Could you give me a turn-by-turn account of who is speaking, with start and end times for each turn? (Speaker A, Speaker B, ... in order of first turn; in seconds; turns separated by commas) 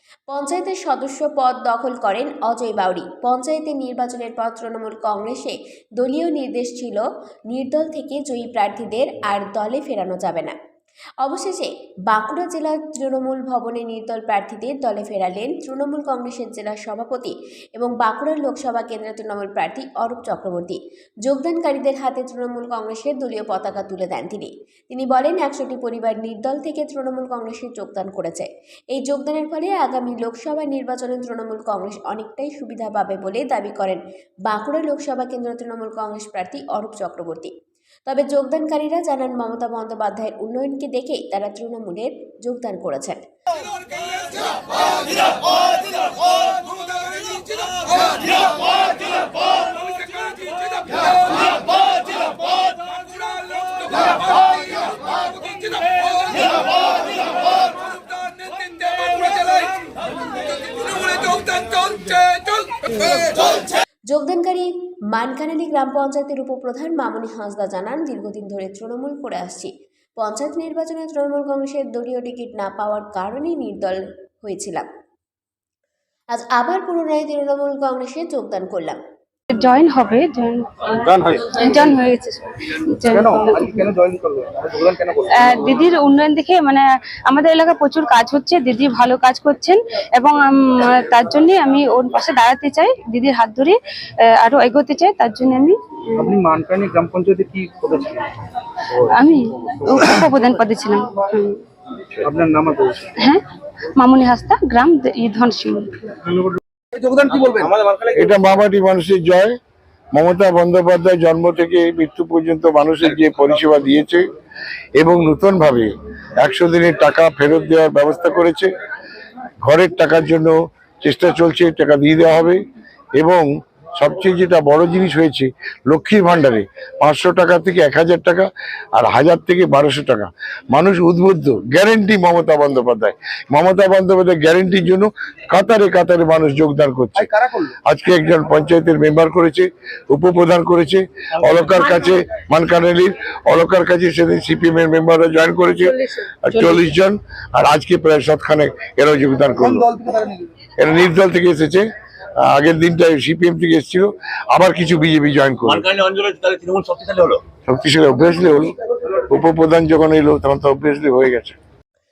Speaker A: 0.3-10.5, Speaker A: 11.2-37.5, Speaker A: 38.1-43.2, Speaker B: 61.1-61.9, Speaker A: 63.0-63.3, Speaker A: 64.1-74.9, Speaker A: 76.3-79.0, Speaker C: 79.5-83.7, Speaker D: 83.1-85.7, Speaker C: 85.3-93.8, Speaker C: 94.3-96.4, Speaker D: 96.2-98.3, Speaker C: 99.0-101.6, Speaker D: 102.2-103.1, Speaker C: 103.9-106.2, Speaker D: 107.0-107.7, Speaker B: 107.3-108.1, Speaker E: 108.1-109.5, Speaker E: 110.1-114.3, Speaker E: 115.0-118.7, Speaker E: 119.6-122.6, Speaker E: 123.2-137.3, Speaker D: 137.2-137.7, Speaker E: 137.8-149.9, Speaker D: 149.6-150.4, Speaker E: 150.8-151.8, Speaker E: 152.4-155.8, Speaker B: 155.7-157.4, Speaker E: 157.7-158.7, Speaker E: 159.3-161.6